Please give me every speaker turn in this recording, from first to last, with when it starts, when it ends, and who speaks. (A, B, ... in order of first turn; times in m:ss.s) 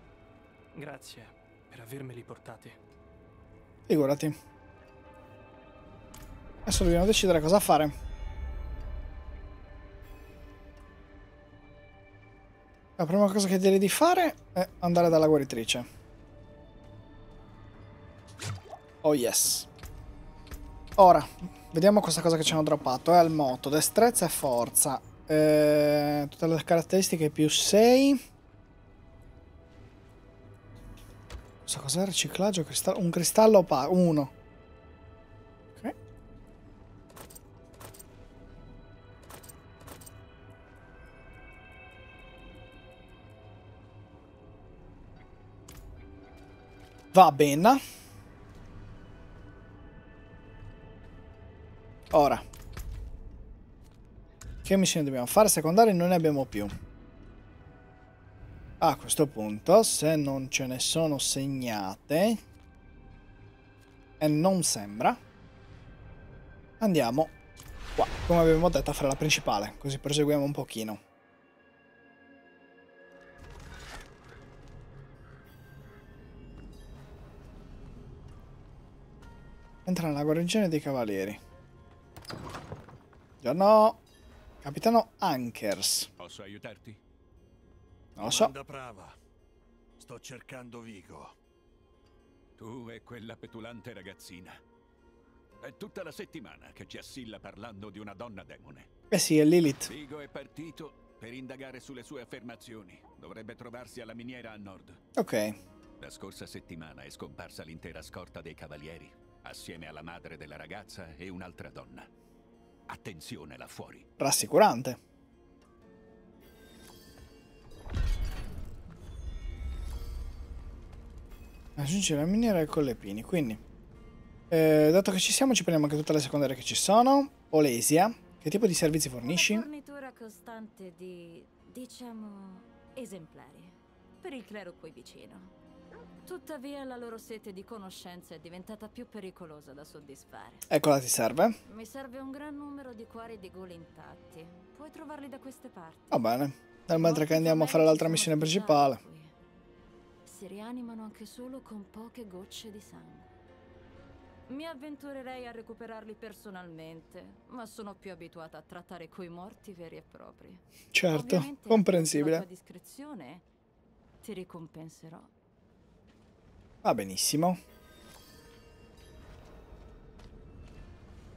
0:00.7-0:02.8 A
0:03.9-0:04.4 B
0:06.7-0:07.9 B
0:13.0-0:15.9 B
0:19.0-0:19.7 B
0:21.0-0:28.2 B
0:31.7-0:34.3 B
0:47.1-0:47.8 B
0:52.1-0:52.4 B
0:54.6-0:56.8 B
0:58.8-1:02.4 B
1:04.2-1:05.2 B
1:06.8-1:07.3 B
1:08.0-1:11.0 B
1:19.9-1:21.4 B
1:23.4-1:24.0 B
1:24.6-1:26.1 B
1:26.2-1:27.0 C
1:28.2-1:28.5 B
1:28.2-1:29.1 D
1:30.0-1:31.3 D
1:32.6-1:34.6 C
1:35.6-1:38.9 C
1:39.1-1:39.9 B
1:39.8-1:45.0 C
1:45.2-1:45.6 B
1:46.0-1:52.1 C
1:52.9-1:54.1 C
1:54.2-1:55.0 B
2:01.8-2:03.6 B
2:04.5-2:09.7 B
2:09.2-2:15.5 E
2:16.2-2:20.7 E
2:20.7-2:21.6 B
2:21.7-2:26.2 E
2:26.1-2:29.0 B
2:26.9-2:29.3 E
2:30.2-2:33.3 E
2:34.5-2:43.4 E
2:40.9-2:42.4 B
2:44.2-2:45.3 E
2:46.8-2:47.6 B